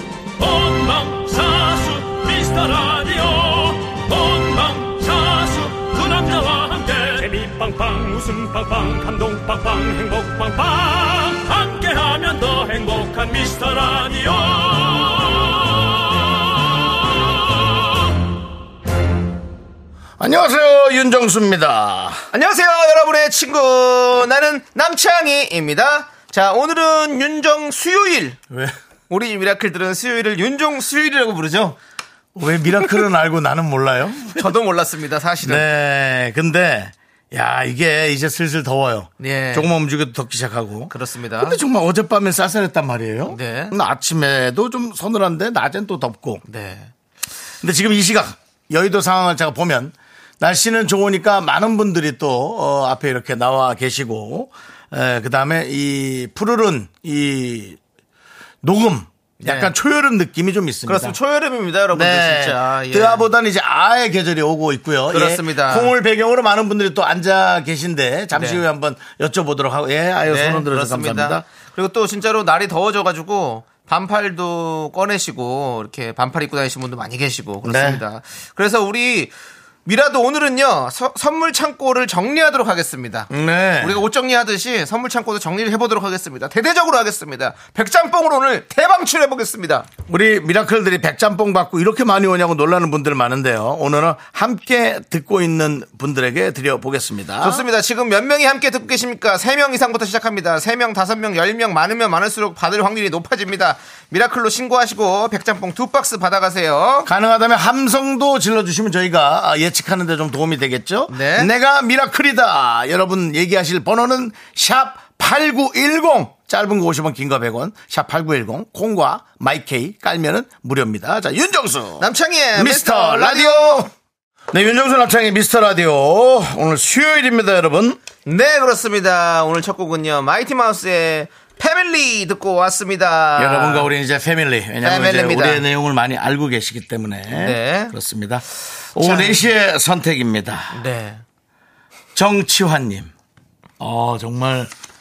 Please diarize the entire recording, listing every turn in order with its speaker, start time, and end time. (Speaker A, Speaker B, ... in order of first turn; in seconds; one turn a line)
Speaker A: 0.4-15.9
Speaker B: 20.2-22.2
Speaker C: 22.3-28.4
Speaker B: 28.5-28.7
Speaker C: 29.1-31.8
Speaker B: 32.4-34.5
Speaker C: 34.3-35.6
Speaker B: 35.4-46.4
Speaker C: 39.2-39.7
Speaker C: 40.9-41.6
Speaker C: 43.3-43.7
Speaker C: 46.5-46.9
Speaker B: 47.6-57.8
Speaker B: 58.6-61.1
Speaker C: 59.4-59.7
Speaker C: 60.9-63.2
Speaker B: 61.9-71.4
Speaker C: 65.1-65.9
Speaker C: 68.3-68.6
Speaker C: 70.2-79.3
Speaker B: 77.6-78.0
Speaker C: 79.8-89.9
Speaker B: 83.3-84.0
Speaker B: 90.1-97.6
Speaker C: 97.4-107.1
Speaker B: 107.0-123.9
Speaker C: 111.1-111.5
Speaker C: 122.0-123.8
Speaker B: 124.5-128.0
Speaker C: 128.2-133.9
Speaker B: 133.4-140.8
Speaker C: 134.8-135.6
Speaker C: 137.3-137.9
Speaker C: 139.0-139.4
Speaker C: 140.7-141.2
Speaker B: 142.1-143.1
Speaker B: 143.8-144.7